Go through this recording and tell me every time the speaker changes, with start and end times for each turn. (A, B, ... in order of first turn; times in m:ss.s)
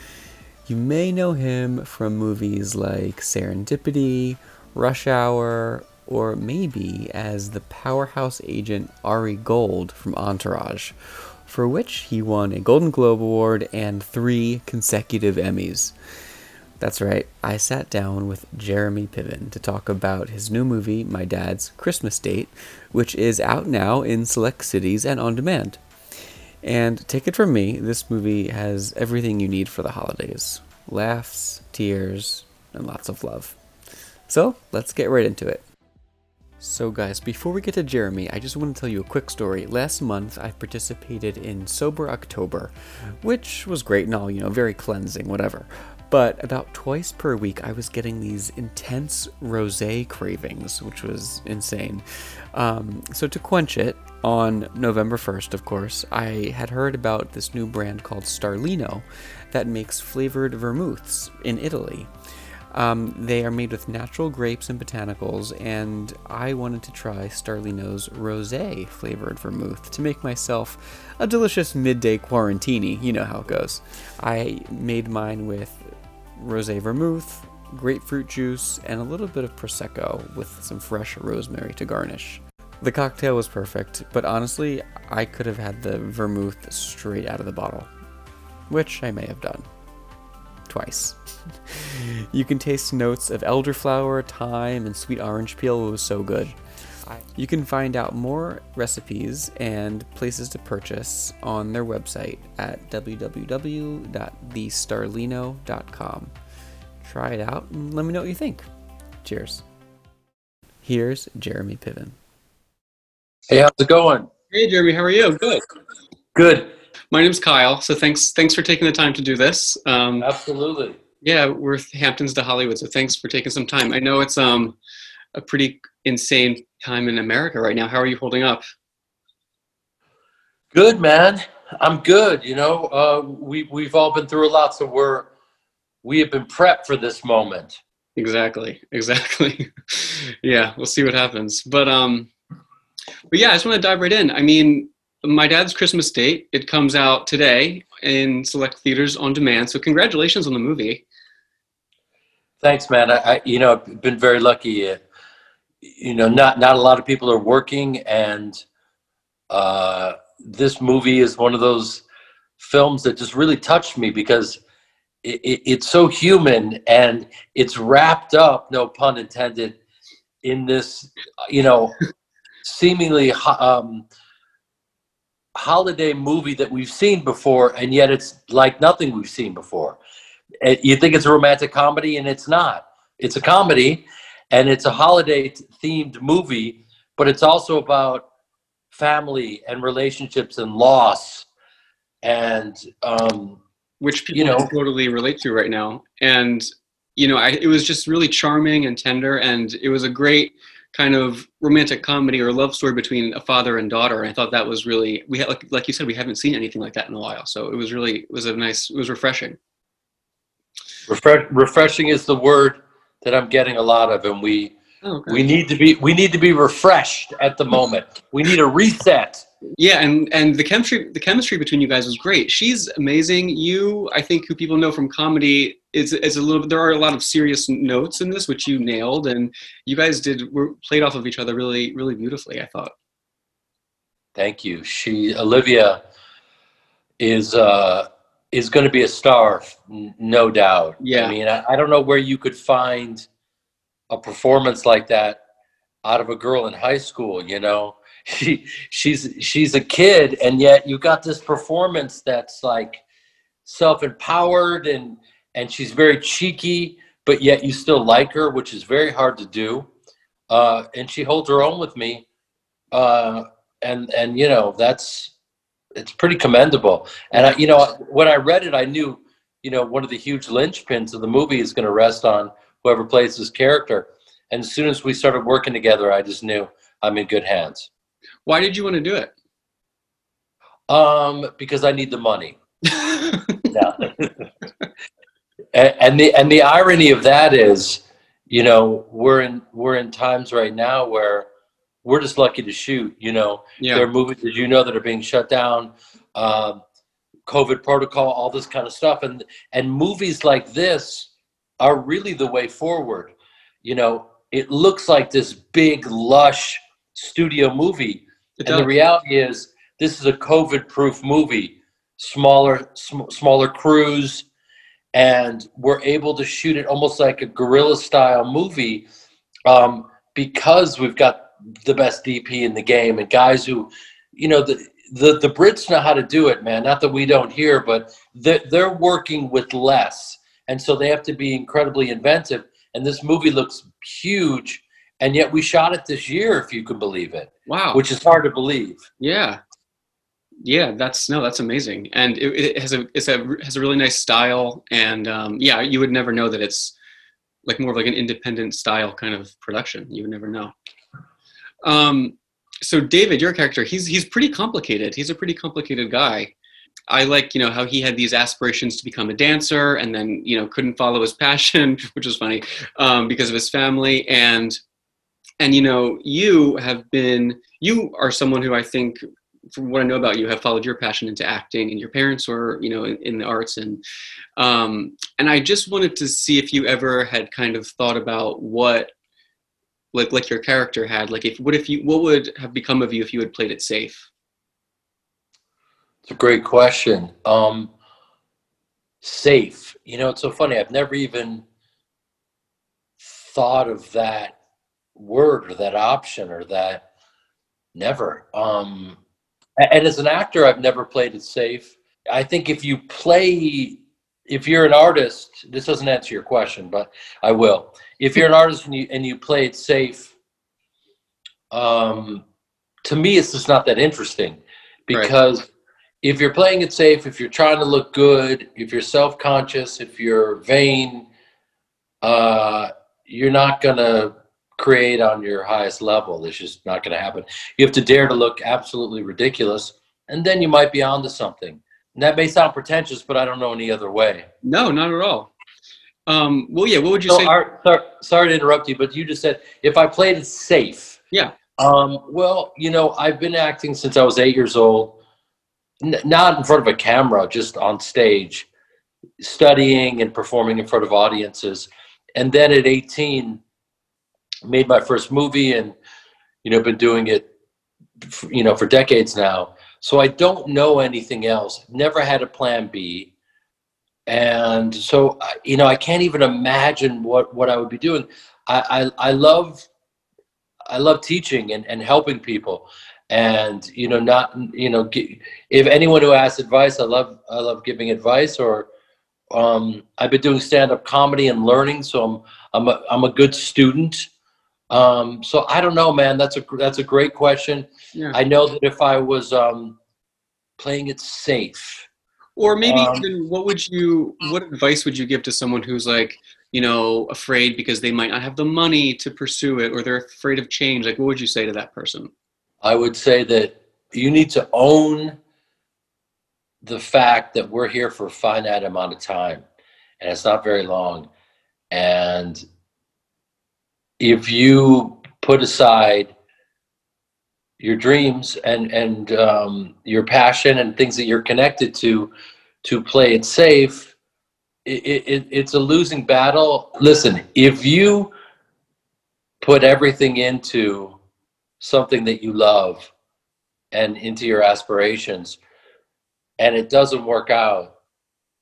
0:00.6-0:10.9 A
0:11.5-0:15.9 A
0:16.8-0:25.8 A
0:26.6-0:33.6 A
0:34.3-0:35.6 A
0:36.6-0:42.7 A
0:43.2-1:02.1 A
1:02.7-1:27.9 A
1:28.7-1:29.7 A
1:30.7-1:46.3 A
1:47.0-1:48.7 A
1:49.2-1:49.6 A
1:50.8-1:52.2 A
1:53.5-1:54.3 B
1:54.5-1:55.6 C
1:56.3-1:56.7 B
1:57.1-2:00.3 C
2:00.2-2:01.0 B
2:01.2-2:04.8 C
2:05.3-2:08.6 C
2:10.7-2:15.3 B
2:16.0-2:17.8 B
2:18.2-2:22.3 C
2:23.3-2:31.0 C
2:32.6-2:35.0 B
2:35.8-2:38.6 B
2:39.5-2:42.0 B
2:42.6-2:44.6 B
2:45.2-2:49.8 B
2:50.4-2:52.0 B
2:52.6-2:54.0 B
2:55.6-3:00.0 B
3:00.6-3:08.3 B
3:08.9-3:11.5 B
3:12.2-3:13.6 B
3:14.0-3:29.6 C
3:14.3-3:14.7 B
3:31.1-3:34.8 B
3:35.0-3:35.5 C
3:35.3-3:39.4 B
3:39.8-3:52.9 C
3:54.3-3:56.0 B
3:57.2-4:03.3 B
4:01.0-4:01.4 C
4:04.1-4:05.4 B
4:06.0-4:13.0 B
4:13.6-4:19.9 B
4:20.5-4:22.2 B
4:22.9-4:25.3 B
4:26.0-4:37.9 B
4:38.4-4:39.3 C
4:40.9-4:42.6 B
4:42.9-4:43.7 C
4:43.7-4:44.3 B
4:45.7-4:51.5 B
4:52.0-4:56.8 B
4:53.8-4:54.1 C
4:57.5-5:14.5 B
5:08.6-5:08.9 C
5:15.1-5:19.0 B
5:19.7-5:39.0 B
5:37.7-5:38.0 C
5:39.2-5:39.6 C
5:40.6-5:46.9 C
5:47.6-5:50.7 C
5:51.8-5:56.5 C
5:57.1-6:04.8 C
6:05.6-6:09.2 C
6:09.7-6:14.0 C
6:14.6-6:19.1 C
6:20.1-6:24.3 C
6:26.2-6:27.9 B
6:29.2-6:31.6 B
6:33.2-6:34.6 B
6:35.2-6:37.0 B
6:37.9-6:39.2 B
6:39.8-6:50.4 B
6:51.7-6:52.4 B
6:53.0-6:55.7 B
6:56.2-7:01.3 B
7:02.2-7:14.5 B
7:14.6-7:15.5 C
7:16.3-7:17.5 C
7:17.3-7:21.2 B
7:21.8-7:25.2 B
7:26.0-7:28.7 B
7:29.4-7:33.6 B
7:34.6-7:36.0 B
7:36.6-7:37.5 B
7:38.2-7:43.3 B
7:44.3-7:49.9 B
7:50.9-7:58.9 B
7:59.5-8:04.3 B
8:04.9-8:10.0 B
8:10.8-8:12.1 B
8:12.6-8:22.3 C
8:12.8-8:13.2 B
8:22.8-8:25.4 B
8:26.8-8:29.6 B
8:30.2-8:31.3 B
8:31.9-8:32.6 B
8:34.2-8:36.3 B
8:37.8-8:42.3 B
8:42.8-8:44.1 B
8:44.8-8:48.3 B
8:49.6-8:51.2 B
8:51.8-8:53.1 B
8:53.9-8:55.6 B
8:56.6-8:57.9 B